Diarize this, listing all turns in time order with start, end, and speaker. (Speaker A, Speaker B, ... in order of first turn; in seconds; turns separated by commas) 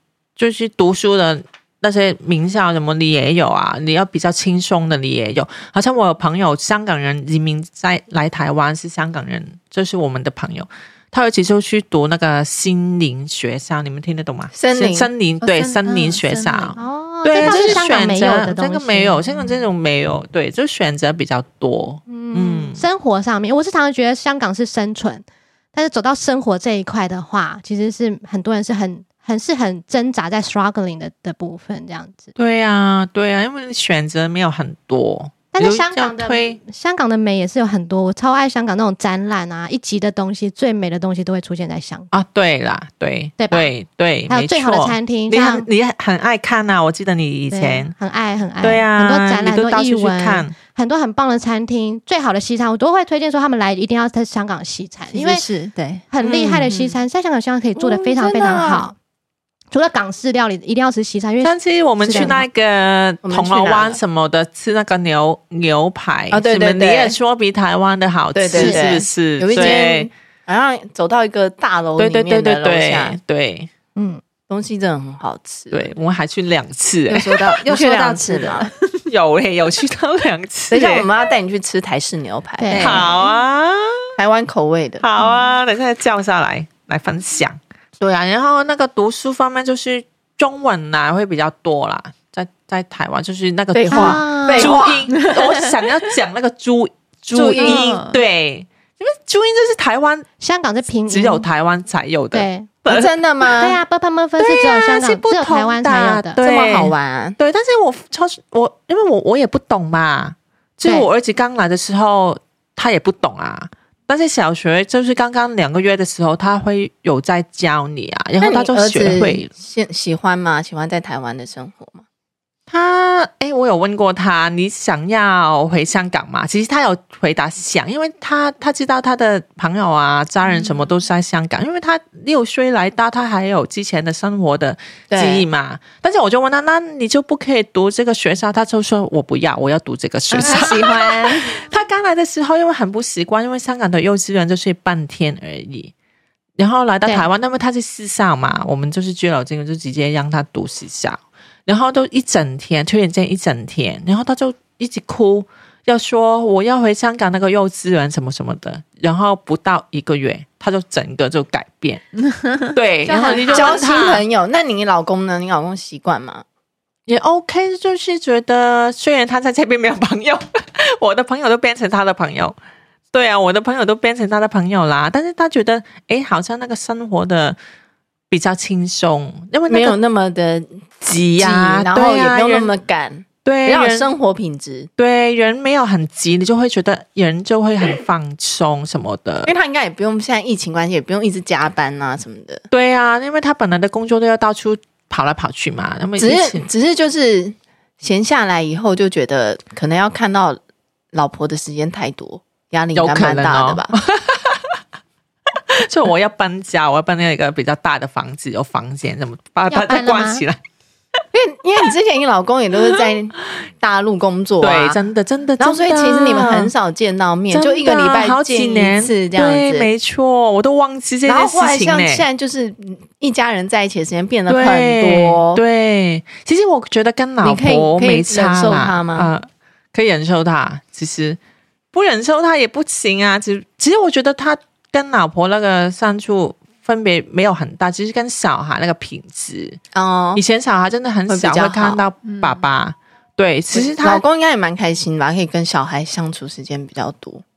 Speaker A: 0.4-22.8, Speaker B: 14.5-15.1, Speaker C: 15.4-16.8, Speaker D: 16.8-19.2, Speaker D: 22.1-32.3, Speaker A: 32.4-36.6, Speaker D: 35.5-42.1, Speaker A: 42.1-47.9, Speaker D: 43.4-43.7, Speaker D: 44.3-45.7, Speaker D: 47.5-55.4, Speaker A: 48.6-50.5, Speaker C: 55.1-56.0, Speaker D: 56.1-59.0, Speaker A: 56.2-56.7, Speaker C: 56.7-56.9, Speaker B: 57.8-58.9, Speaker D: 59.7-62.4, Speaker A: 61.4-70.1, Speaker B: 62.1-62.4, Speaker B: 63.2-64.0, Speaker B: 66.3-67.2, Speaker B: 68.3-73.2, Speaker D: 68.5-68.8, Speaker A: 72.0-73.7, Speaker D: 74.0-74.2, Speaker B: 74.5-75.9, Speaker A: 75.7-77.5, Speaker B: 77.1-78.7, Speaker C: 77.3-79.0, Speaker A: 79.1-81.1, Speaker B: 80.7-82.9, Speaker D: 82.6-83.1, Speaker C: 82.7-83.1, Speaker A: 82.8-84.1, Speaker B: 84.2-85.0, Speaker A: 85.0-100.3, Speaker B: 93.7-95.1, Speaker D: 93.9-94.8, Speaker C: 95.1-95.7, Speaker B: 97.3-97.9, Speaker C: 97.5-98.2, Speaker D: 100.4-101.5, Speaker A: 101.1-103.1, Speaker D: 102.3-102.7, Speaker B: 102.8-103.8, Speaker D: 103.6-106.4, Speaker A: 104.4-119.5, Speaker B: 106.4-107.4, Speaker B: 118.4-122.0, Speaker A: 122.7-145.9, Speaker B: 135.1-135.4, Speaker C: 140.3-141.6, Speaker A: 146.6-162.0, Speaker C: 162.2-162.7, Speaker A: 162.7-164.2, Speaker D: 163.1-163.7, Speaker B: 163.3-166.4, Speaker A: 167.1-172.6, Speaker A: 173.1-177.6, Speaker A: 178.3-180.0, Speaker B: 179.7-184.9, Speaker A: 181.0-182.7, Speaker A: 183.4-184.1, Speaker A: 185.0-189.5, Speaker B: 189.4-192.6, Speaker A: 192.7-196.7, Speaker B: 196.2-200.6, Speaker B: 201.1-203.9, Speaker A: 202.9-204.8, Speaker A: 205.7-210.6, Speaker D: 209.7-210.4, Speaker B: 211.3-215.0, Speaker A: 214.6-216.7, Speaker B: 215.6-219.9, Speaker A: 217.5-222.2, Speaker B: 221.2-225.6, Speaker A: 224.5-231.4, Speaker B: 227.4-229.3, Speaker A: 231.9-239.8, Speaker B: 239.9-240.4, Speaker A: 240.3-244.2, Speaker B: 241.3-242.0, Speaker C: 242.2-242.6, Speaker B: 243.7-247.4